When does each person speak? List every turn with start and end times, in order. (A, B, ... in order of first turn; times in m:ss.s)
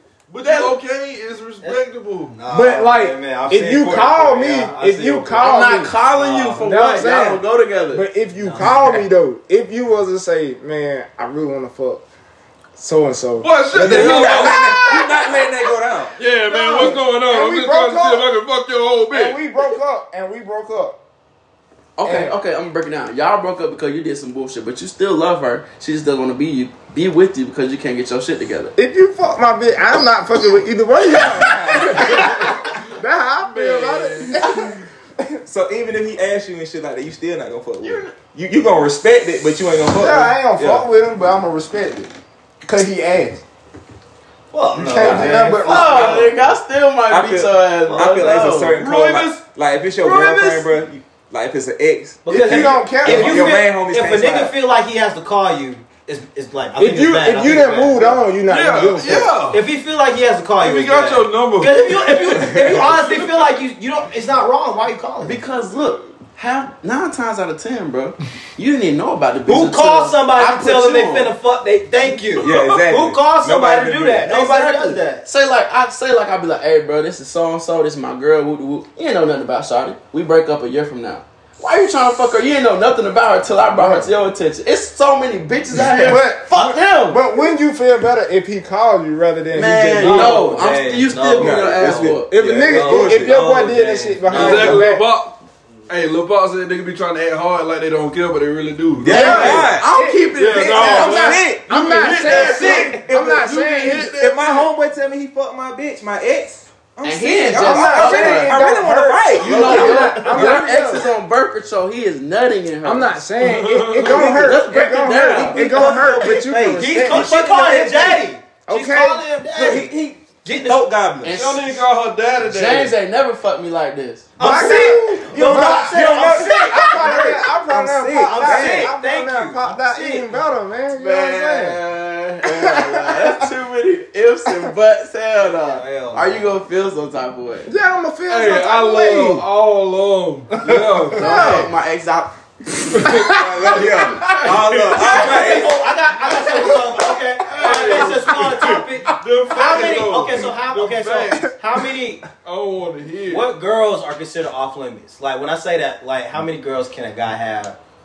0:00.3-0:02.4 A
0:00.4-0:00.7 B
0:01.6-0:05.5 C
0:02.5-0:12.0 D
0:05.4-0:08.1 B
0:08.4-0:08.7 C
0:12.8-0:14.4 D
0:13.4-0:14.9 A
0:13.7-0:16.2 E
0:13.8-0:15.4 B
0:16.1-0:19.4 A
0:16.4-0:18.3 D
0:19.1-0:21.0 D
0:22.0-0:28.7 B
0:22.0-0:22.3 D
0:28.8-0:34.8 D
0:31.3-0:32.3 E
0:32.1-0:32.9 A
0:33.4-0:34.8 A
0:35.4-0:40.8 E
0:37.8-0:38.1 B
0:39.9-0:43.4 D
0:44.5-0:46.4 C
0:44.7-0:46.0 D
0:44.9-0:48.8 B
0:47.1-0:54.5 E
0:48.7-0:49.4 A
0:50.0-0:50.7 A
0:52.2-0:58.2 C
0:52.3-0:53.6 D
0:56.8-0:59.3 D
0:58.5-0:59.6 A
0:59.5-1:05.4 C
1:00.6-1:03.5 A
1:02.4-1:02.8 E
1:05.2-1:11.3 B
1:09.4-1:15.2 C
1:12.4-1:14.9 E
1:14.3-1:27.5 B
1:23.8-1:24.1 D
1:25.9-1:30.5 D
1:29.5-1:32.7 B
1:30.0-1:34.8 C
1:31.4-1:33.5 E
1:32.3-1:35.0 D
1:34.3-1:39.6 A
1:39.0-1:39.9 E
1:39.1-1:41.4 B
1:39.1-1:44.1 D
1:40.3-1:44.7 A
1:40.7-1:50.6 E
1:42.3-1:43.0 C
1:47.0-1:48.6 B
1:47.5-1:51.1 D
1:49.4-1:53.2 B
1:49.6-1:50.0 C
1:52.8-1:57.3 D
1:53.4-1:54.1 A
1:54.0-1:58.2 E
1:54.0-1:56.0 B
1:56.0-2:00.8 C
1:58.7-1:59.2 D
1:59.5-2:01.4 E
2:01.2-2:01.8 B
2:01.3-2:02.9 A
2:02.4-2:07.3 B
2:04.4-2:07.3 C
2:04.4-2:11.8 D
2:04.5-2:08.9 E
2:08.2-2:10.4 C
2:10.9-2:17.7 B
2:12.4-2:13.5 D
2:15.4-2:16.5 C
2:17.6-2:19.4 D
2:18.3-2:21.5 A
2:20.8-2:21.7 D
2:21.1-2:25.6 B
2:22.9-2:24.4 A
2:23.0-2:25.5 D
2:23.2-2:25.8 E
2:24.9-2:32.2 C
2:27.5-2:31.5 A
2:27.6-2:28.1 B
2:32.4-2:33.5 A
2:33.3-2:37.8 C